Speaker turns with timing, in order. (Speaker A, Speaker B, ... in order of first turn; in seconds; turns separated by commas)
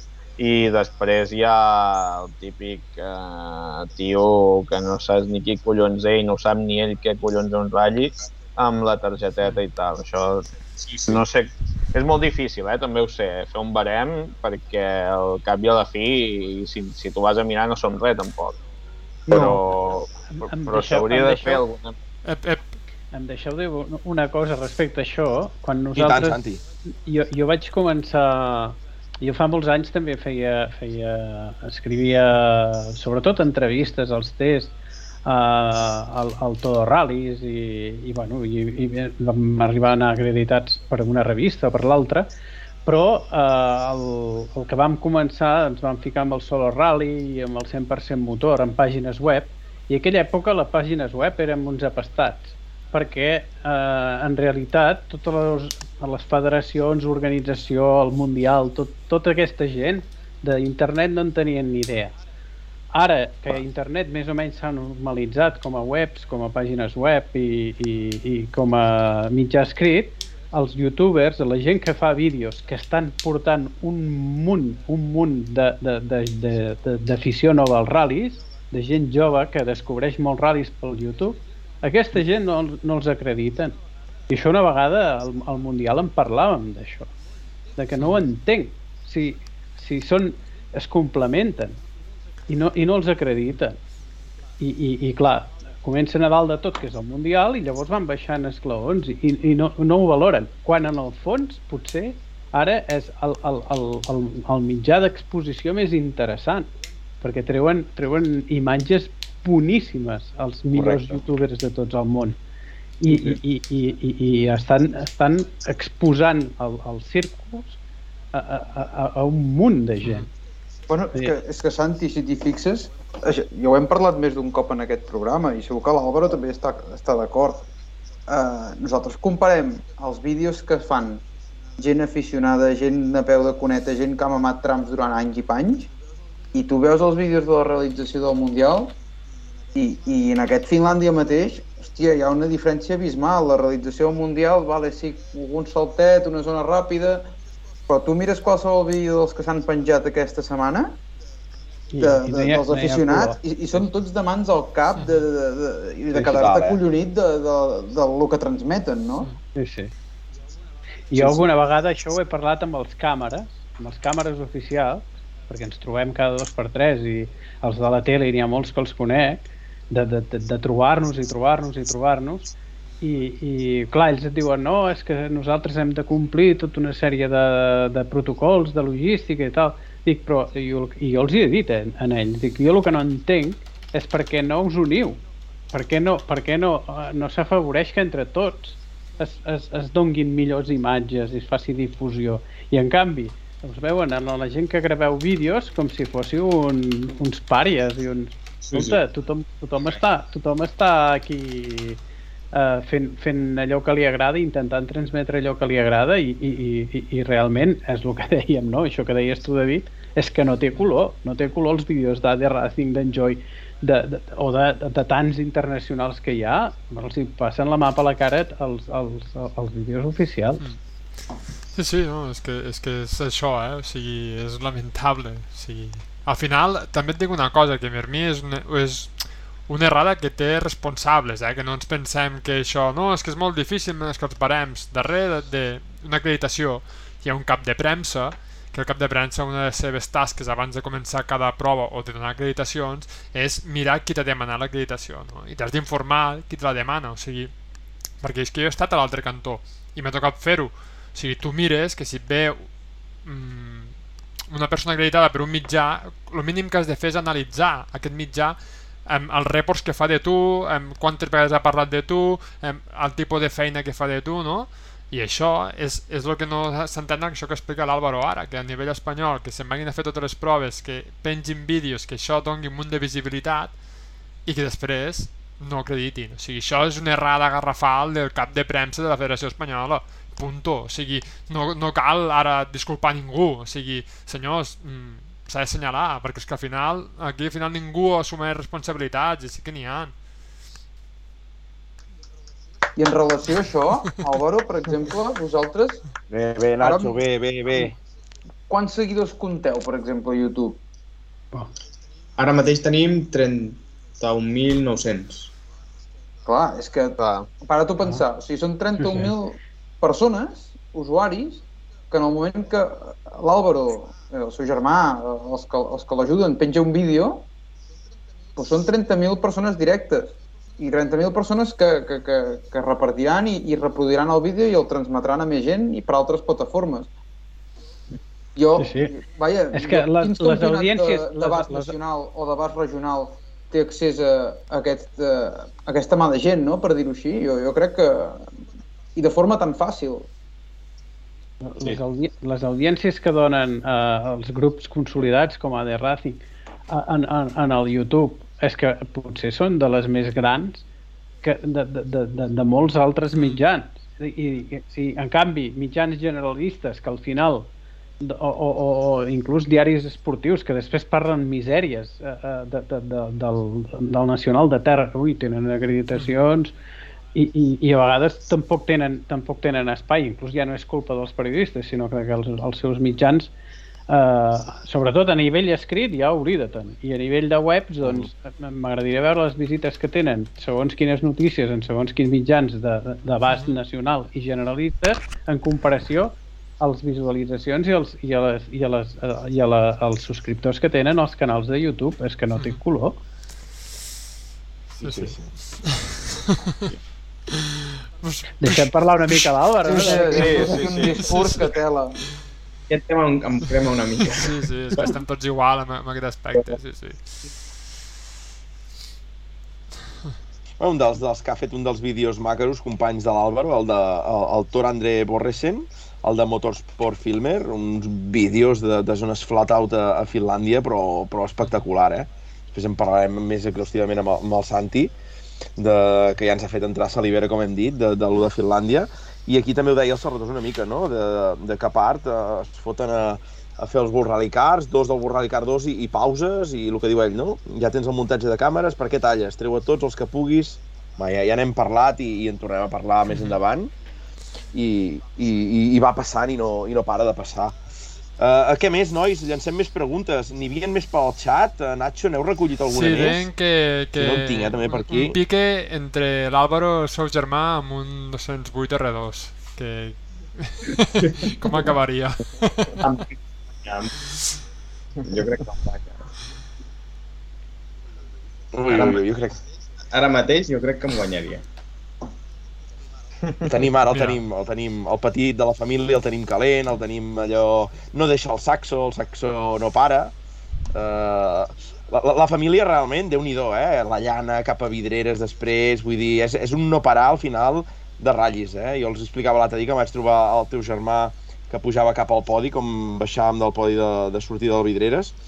Speaker A: 0.4-10.5, Speaker B: 10.8-11.2, Speaker A: 11.1-18.6, Speaker A: 19.3-22.0, Speaker C: 20.3-21.6, Speaker D: 22.2-22.8, Speaker C: 23.1-26.4, Speaker E: 25.9-26.6, Speaker C: 27.0-34.7, Speaker C: 35.2-42.3, Speaker C: 42.9-62.2, Speaker C: 62.9-83.8, Speaker C: 84.3-87.1, Speaker C: 87.8-91.8, Speaker C: 92.5-93.8, Speaker C: 94.6-106.7, Speaker C: 107.2-112.4, Speaker E: 110.7-111.2, Speaker C: 113.0-117.8, Speaker B: 113.1-113.4, Speaker C: 118.3-120.3, Speaker F: 120.9-127.7, Speaker F: 128.3-131.2, Speaker F: 131.8-135.9, Speaker F: 136.5-139.0, Speaker F: 139.8-147.2, Speaker F: 147.9-151.0, Speaker C: 151.9-153.4, Speaker F: 152.0-159.3, Speaker D: 155.0-155.2, Speaker E: 156.2-156.8, Speaker C: 159.6-159.9, Speaker C: 161.1-185.2, Speaker C: 185.7-202.0, Speaker B: 198.6-199.0, Speaker C: 202.5-220.6, Speaker D: 221.8-247.5, Speaker D: 248.2-252.7, Speaker D: 253.2-253.9, Speaker D: 254.5-273.8, Speaker D: 274.4-290.1, Speaker F: 293.0-296.1, Speaker E: 296.3-297.9, Speaker F: 296.8-297.2, Speaker F: 298.7-300.8, Speaker B: 302.4-305.5, Speaker F: 306.5-317.5, Speaker A: 307.2-307.5, Speaker C: 309.0-309.3, Speaker F: 318.6-327.1, Speaker F: 328.6-338.5, Speaker C: 328.8-329.1, Speaker C: 329.7-331.9, Speaker F: 339.2-340.3, Speaker C: 341.6-350.9, Speaker C: 351.4-357.7, Speaker D: 353.3-353.6, Speaker C: 358.2-366.7, Speaker C: 367.4-373.5, Speaker C: 374.1-393.2, Speaker D: 383.5-383.8, Speaker E: 395.0-395.5, Speaker D: 395.0-396.7, Speaker D: 397.7-399.5, Speaker C: 398.6-400.7, Speaker F: 399.8-402.2, Speaker A: 400.0-401.4, Speaker D: 400.3-401.8, Speaker B: 402.9-405.1, Speaker D: 404.3-407.4, Speaker E: 410.8-425.1, Speaker E: 425.8-443.9, Speaker E: 444.7-447.8, Speaker E: 448.4-453.5, Speaker D: 452.9-463.0, Speaker E: 454.2-455.4, Speaker B: 461.2-461.9, Speaker B: 463.0-464.1, Speaker B: 465.2-466.2, Speaker E: 468.7-469.6, Speaker B: 468.9-469.2, Speaker B: 470.1-471.6, Speaker E: 473.6-480.3, Speaker D: 474.1-474.4, Speaker E: 480.9-495.4